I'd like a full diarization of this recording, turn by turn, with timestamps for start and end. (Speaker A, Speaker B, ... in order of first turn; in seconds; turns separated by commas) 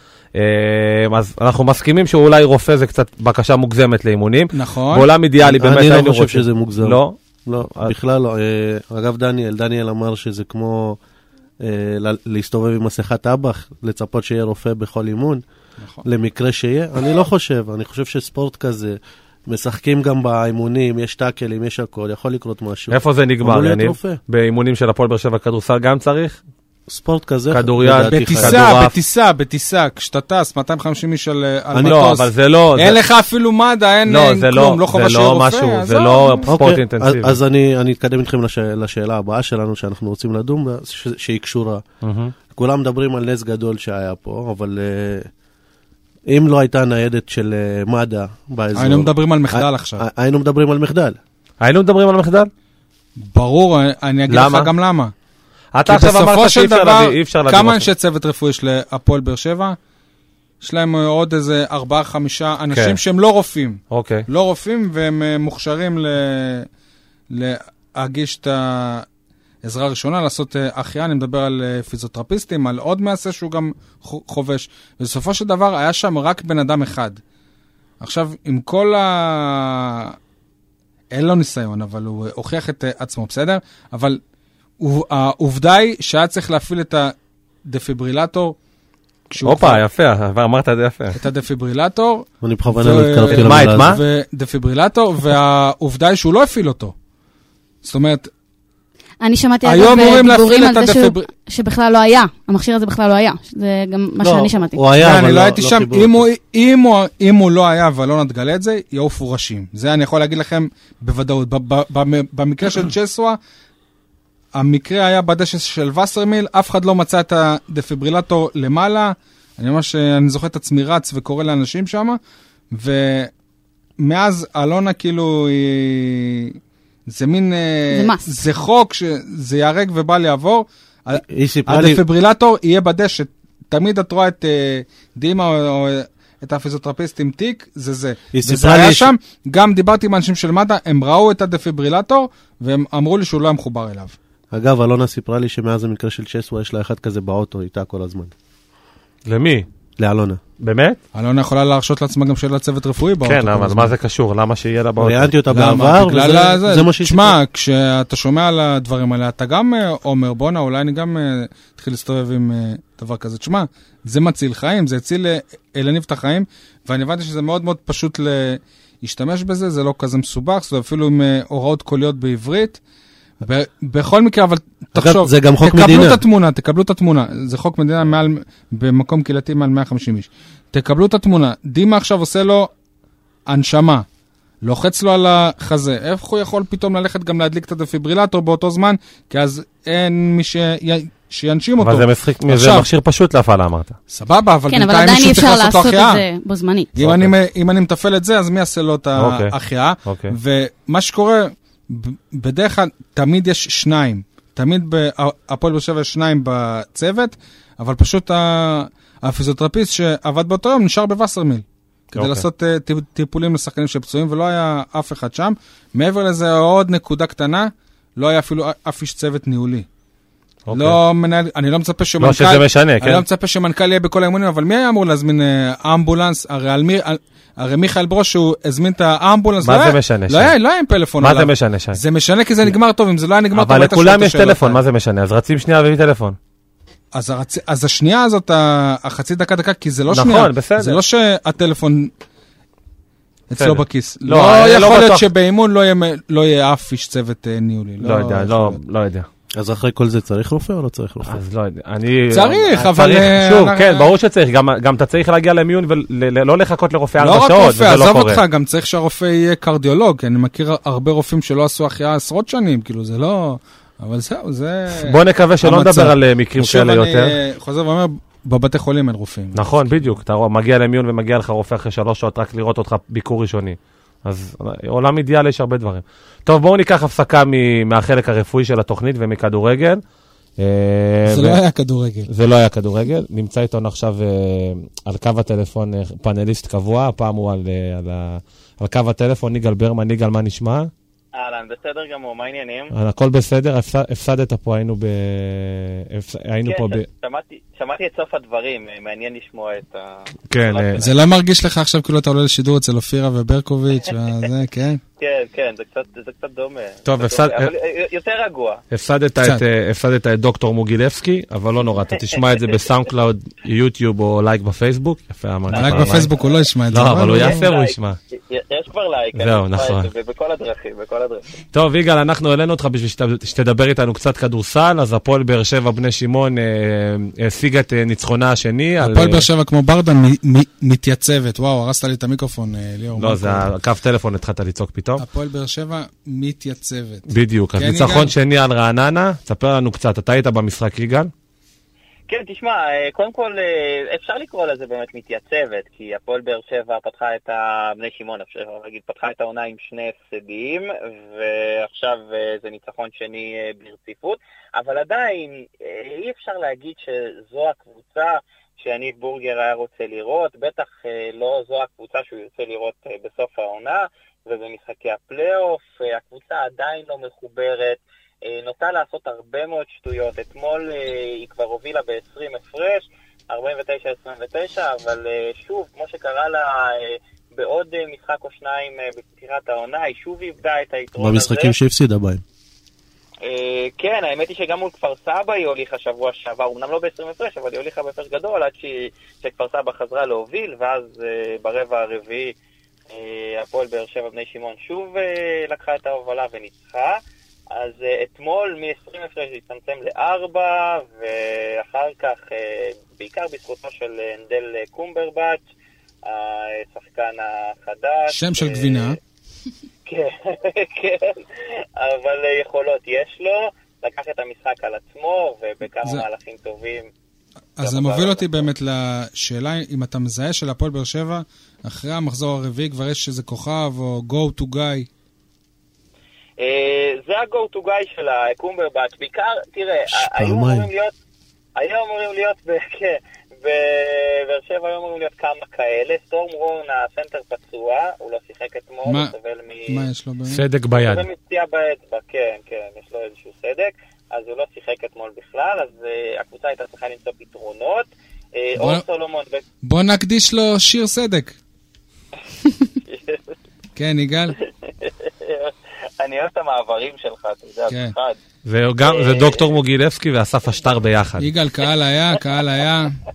Speaker A: 0.3-7.2, Speaker B: 4.5-5.1, Speaker C: 5.4-11.0, Speaker C: 11.6-15.4, Speaker B: 15.8-16.0, Speaker C: 16.0-24.2, Speaker A: 22.9-26.4, Speaker C: 26.9-28.7, Speaker A: 27.5-28.9, Speaker B: 28.1-36.5, Speaker C: 31.7-32.0, Speaker A: 31.8-33.0, Speaker A: 34.1-37.4, Speaker C: 36.5-41.8, Speaker A: 42.0-42.3, Speaker C: 42.5-45.3, Speaker C: 46.3-51.2, Speaker B: 48.8-50.0, Speaker A: 51.6-52.5, Speaker B: 53.2-55.1, Speaker A: 54.3-54.7, Speaker A: 55.7-57.9, Speaker B: 55.9-59.8, Speaker B: 60.6-66.7, Speaker A: 62.7-63.0, Speaker A: 63.9-64.2, Speaker B: 67.3-69.0, Speaker B: 69.6-77.2, Speaker B: 78.0-80.1, Speaker B: 81.1-84.2, Speaker B: 84.8-87.1, Speaker B: 87.7-88.5, Speaker B: 89.3-89.8, Speaker A: 89.4-91.2, Speaker B: 91.1-96.9, Speaker C: 92.4-94.0, Speaker A: 93.3-94.0, Speaker B: 97.8-98.3, Speaker D: 99.2-104.8, Speaker B: 99.6-101.3, Speaker C: 104.2-106.2, Speaker B: 105.0-113.4, Speaker B: 114.5-122.2, Speaker B: 122.7-123.3, Speaker B: 124.0-126.6, Speaker B: 127.1-144.2, Speaker D: 127.9-128.3, Speaker C: 131.2-132.0, Speaker C: 138.3-139.1, Speaker C: 144.5-148.3, Speaker A: 149.3-149.7, Speaker C: 150.0-150.4, Speaker A: 150.6-151.0, Speaker B: 151.1-153.9, Speaker A: 153.2-155.3, Speaker C: 155.0-157.4, Speaker B: 155.5-172.8, Speaker B: 173.4-182.7, Speaker C: 174.9-176.2, Speaker B: 183.5-184.0, Speaker B: 184.6-192.9, Speaker A: 191.8-193.9, Speaker B: 194.1-196.2, Speaker D: 194.7-196.9, Speaker B: 196.9-219.9, Speaker A: 197.0-197.3, Speaker A: 199.2-199.5, Speaker A: 200.0-200.3, Speaker A: 212.1-212.4, Speaker A: 220.7-221.0, Speaker B: 220.7-234.8, Speaker A: 222.2-223.2, Speaker A: 229.6-230.5, Speaker A: 231.2-232.0, Speaker A: 233.5-236.4, Speaker B: 237.1-242.1, Speaker A: 240.1-241.0, Speaker B: 243.5-248.8, Speaker A: 243.6-245.3, Speaker A: 248.0-249.3, Speaker C: 249.5-251.4, Speaker A: 251.2-258.4, Speaker B: 252.3-254.1, Speaker B: 257.2-269.6, Speaker A: 264.9-267.3, Speaker A: 269.5-280.0, Speaker A: 280.6-281.6, Speaker B: 281.2-282.3, Speaker A: 282.3-290.9, Speaker E: 291.3-292.9, Speaker A: 292.9-297.0, Speaker E: 296.6-301.1, Speaker A: 300.5-301.0, Speaker B: 301.0-305.0, Speaker E: 305.2-308.8, Speaker A: 307.1-307.7, Speaker A: 308.9-316.3, Speaker E: 312.3-312.7, Speaker E: 315.7-316.5, Speaker B: 315.7-317.6, Speaker A: 316.9-318.2, Speaker E: 317.3-321.6, Speaker A: 319.3-320.1, Speaker A: 321.7-329.4, Speaker B: 329.0-333.7, Speaker A: 333.2-335.2, Speaker B: 335.2-338.3, Speaker A: 337.3-341.3, Speaker E: 342.3-381.7, Speaker C: 381.2-382.4, Speaker E: 383.4-392.5, Speaker E: 393.1-397.2, Speaker E: 397.7-405.6, Speaker E: 406.2-409.1, Speaker B: 408.3-409.2, Speaker E: 410.1-417.1, Speaker B: 417.8-425.1, Speaker E: 417.8-418.6, Speaker E: 426.6-431.1, Speaker C: 430.1-430.9, Speaker E: 431.8-440.0, Speaker B: 439.1-439.3, Speaker B: 439.9-440.6, Speaker A: 440.5-441.2, Speaker E: 441.0-449.6, Speaker B: 448.8-449.0, Speaker B: 449.8-451.6, Speaker E: 453.0-453.5, Speaker B: 453.9-454.6, Speaker E: 454.8-458.4, Speaker B: 457.9-458.1, Speaker A: 458.6-461.5, Speaker E: 459.0-459.7, Speaker B: 461.4-463.2